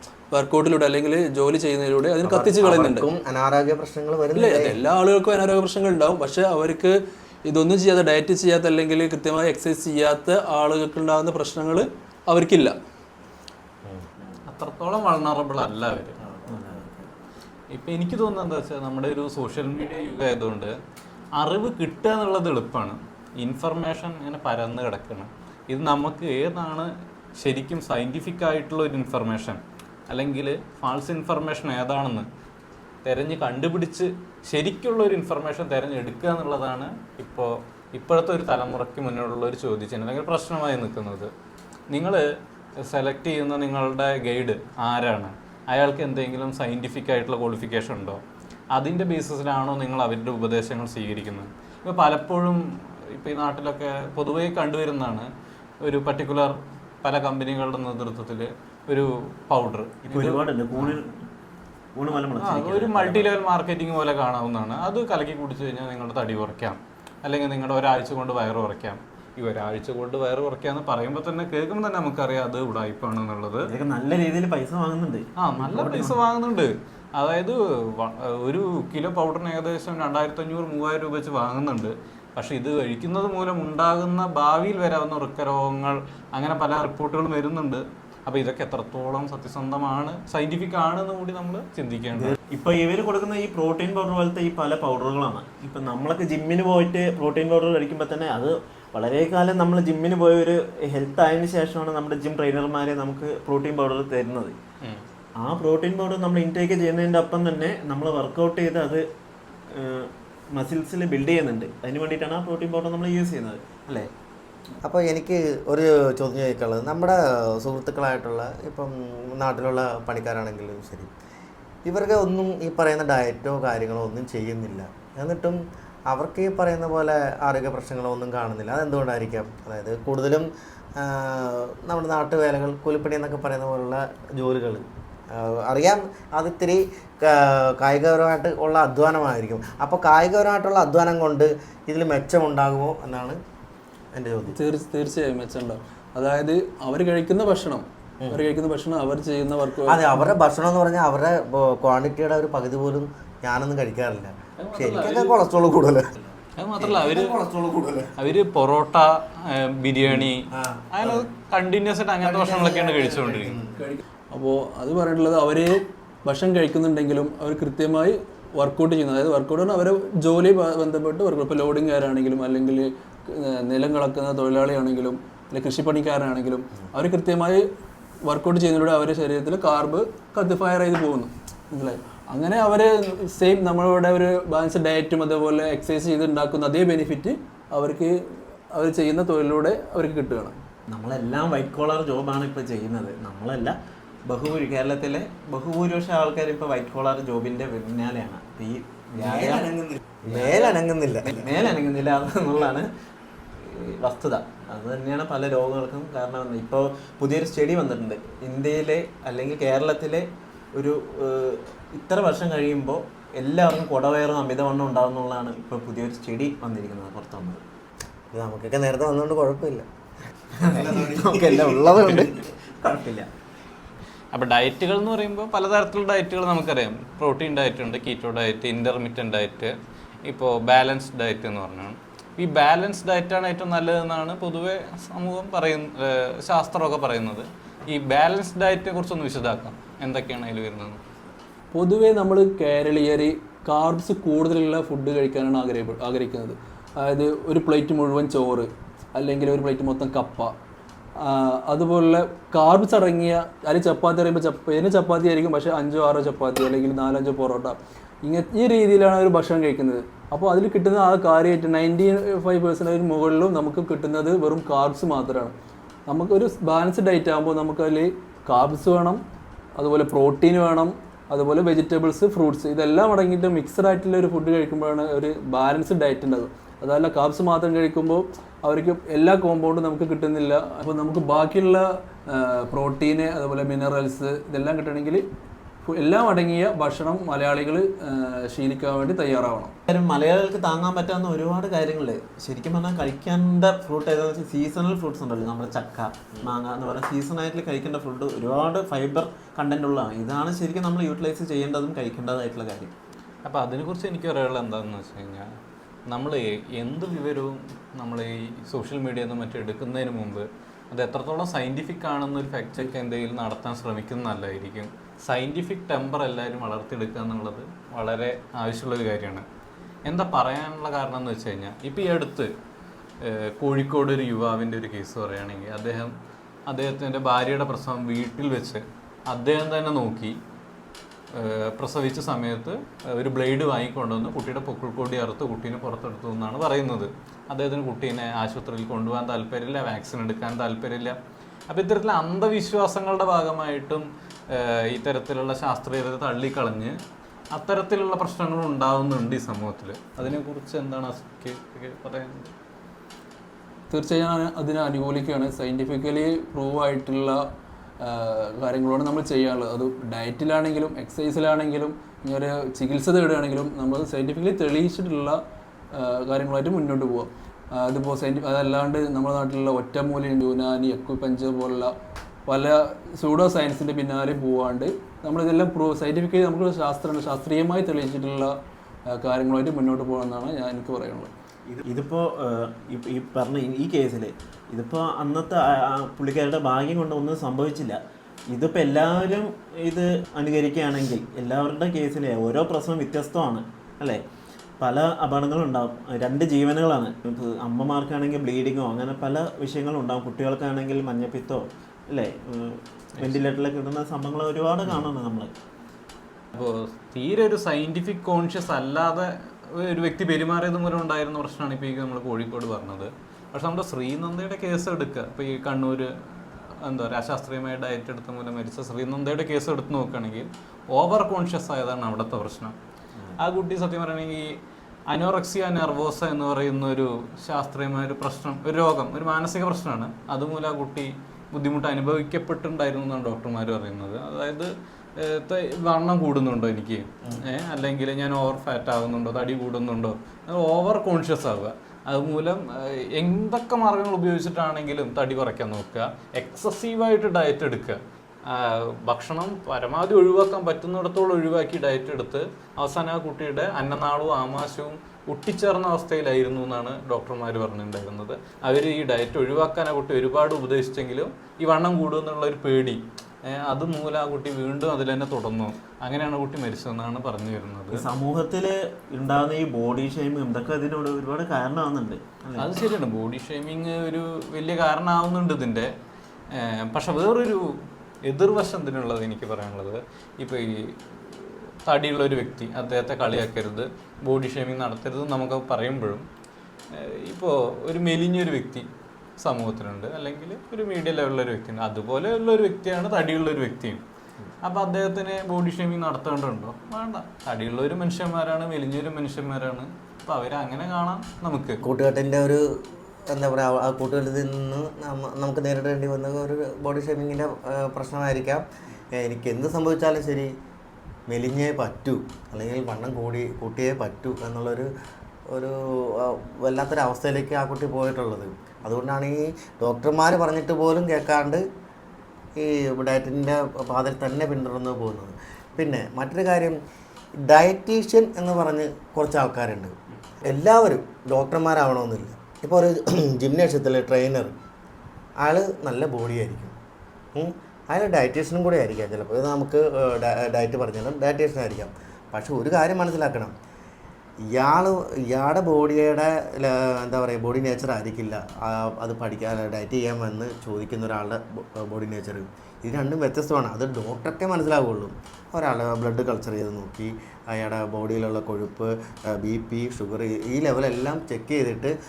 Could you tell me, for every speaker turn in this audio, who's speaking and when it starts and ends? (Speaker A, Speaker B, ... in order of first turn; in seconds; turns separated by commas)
Speaker A: 0.3-3.1, Speaker B: 2.2-4.8, Speaker A: 4.3-7.0, Speaker A: 7.5-12.8, Speaker C: 14.5-16.2, Speaker D: 16.4-17.0, Speaker C: 17.7-20.7, Speaker C: 21.4-32.3, Speaker C: 33.0-41.3, Speaker C: 41.9-42.2, Speaker C: 42.9-48.2, Speaker C: 48.7-52.6, Speaker C: 53.1-55.3, Speaker C: 55.8-61.0, Speaker D: 60.1-61.2, Speaker D: 62.0-63.3, Speaker C: 62.4-73.7, Speaker D: 73.7-76.2, Speaker C: 75.4-92.4, Speaker D: 92.2-104.5, Speaker D: 105.4-109.0, Speaker D: 109.7-114.1, Speaker B: 114.8-121.1, Speaker B: 121.9-143.4, Speaker B: 144.2-144.6, Speaker A: 144.5-150.1, Speaker B: 149.8-156.3, Speaker C: 154.6-155.4, Speaker C: 156.6-157.3, Speaker B: 156.8-158.1, Speaker C: 158.2-163.6, Speaker B: 160.5-161.2, Speaker B: 162.2-163.8, Speaker A: 163.8-177.7, Speaker A: 178.2-188.1, Speaker A: 188.7-190.6, Speaker D: 190.9-199.7, Speaker B: 199.2-201.8, Speaker D: 200.3-200.7, Speaker D: 201.3-202.9, Speaker D: 203.6-217.6, Speaker B: 218.3-219.9, Speaker D: 220.6-223.3, Speaker B: 220.7-222.3, Speaker C: 224.3-229.7, Speaker C: 230.3-241.0, Speaker A: 241.7-250.5, Speaker A: 251.2-265.5, Speaker A: 266.1-269.2, Speaker A: 269.8-285.2, Speaker A: 285.9-289.7, Speaker D: 289.9-302.9, Speaker C: 303.4-305.5, Speaker C: 306.1-319.5, Speaker C: 320.1-322.5, Speaker C: 323.2-326.1, Speaker C: 326.7-330.4, Speaker C: 331.4-341.2, Speaker C: 341.7-346.9, Speaker C: 347.6-352.5, Speaker A: 353.9-357.4, Speaker A: 358.0-365.4, Speaker A: 365.9-371.9, Speaker A: 372.5-378.5, Speaker A: 379.1-381.3, Speaker D: 381.8-388.0, Speaker D: 388.5-394.2, Speaker D: 394.8-405.5, Speaker C: 406.5-422.8, Speaker C: 423.4-424.5, Speaker C: 425.1-434.7, Speaker C: 435.2-463.0, Speaker C: 463.6-468.1, Speaker D: 467.9-472.7, Speaker C: 472.6-475.9, Speaker C: 476.5-477.6, Speaker C: 478.3-486.2, Speaker C: 486.9-488.9, Speaker C: 489.4-494.0, Speaker C: 494.6-501.8, Speaker B: 501.8-508.6, Speaker B: 509.2-510.5, Speaker B: 511.3-514.9, Speaker B: 515.5-521.6, Speaker B: 522.6-526.8, Speaker B: 527.5-529.9, Speaker B: 530.5-534.5, Speaker B: 535.4-536.7, Speaker B: 537.4-543.5, Speaker B: 544.5-562.0